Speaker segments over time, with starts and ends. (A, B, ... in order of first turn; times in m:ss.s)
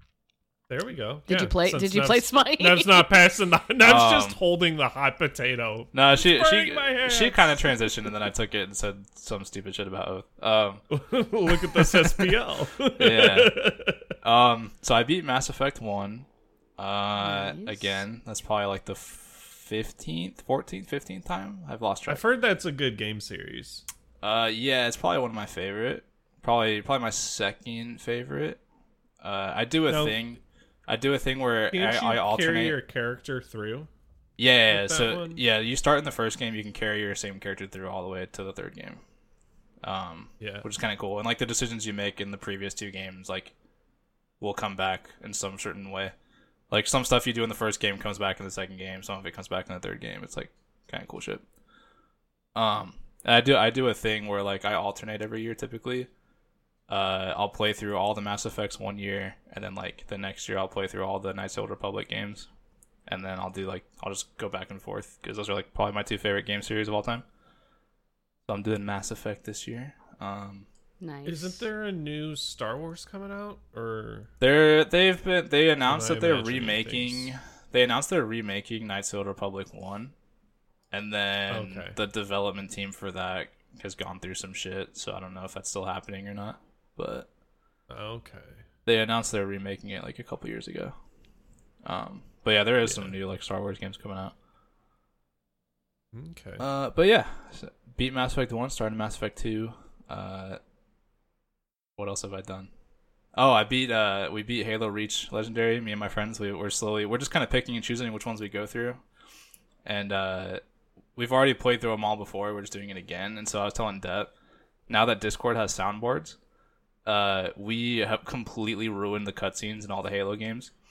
0:00.7-0:07.7 A
0:01.3-0:03.1 B
0:03.8-0:04.4 C
0:05.9-0:10.8 C
0:10.9-0:14.1 A
0:11.5-0:12.3 C
0:13.0-0:13.6 C
0:14.2-0:16.3 C
0:16.8-0:22.2 C
0:17.2-0:18.0 B
0:22.1-0:23.8 A
0:24.2-0:28.6 C
0:29.2-0:32.8 C
0:29.9-0:30.2 A
0:31.7-0:33.9 A
0:34.4-0:39.0 C
0:34.7-0:35.4 A
0:39.8-0:43.5 C
0:40.4-0:40.6 A
0:44.4-0:46.1 C
0:46.7-0:51.4 C
0:52.6-0:56.1 C
0:56.9-1:02.5 C
1:03.1-1:07.2 C
1:08.5-1:10.7 C
1:11.0-1:11.6 B
1:11.3-1:14.3 A
1:14.4-1:20.1 C
1:15.8-1:17.3 A
1:20.9-1:27.3 C
1:21.5-1:22.0 A
1:27.9-1:28.6 A
1:28.9-1:31.0 C
1:31.8-1:34.3 C
1:32.8-1:33.2 A
1:36.1-1:36.6 A
1:36.6-1:40.6 C
1:42.0-1:42.7 C
1:43.4-1:49.0 C
1:49.8-1:50.6 C
1:51.2-1:54.3 C
1:54.9-1:56.4 C
1:57.0-2:00.7 C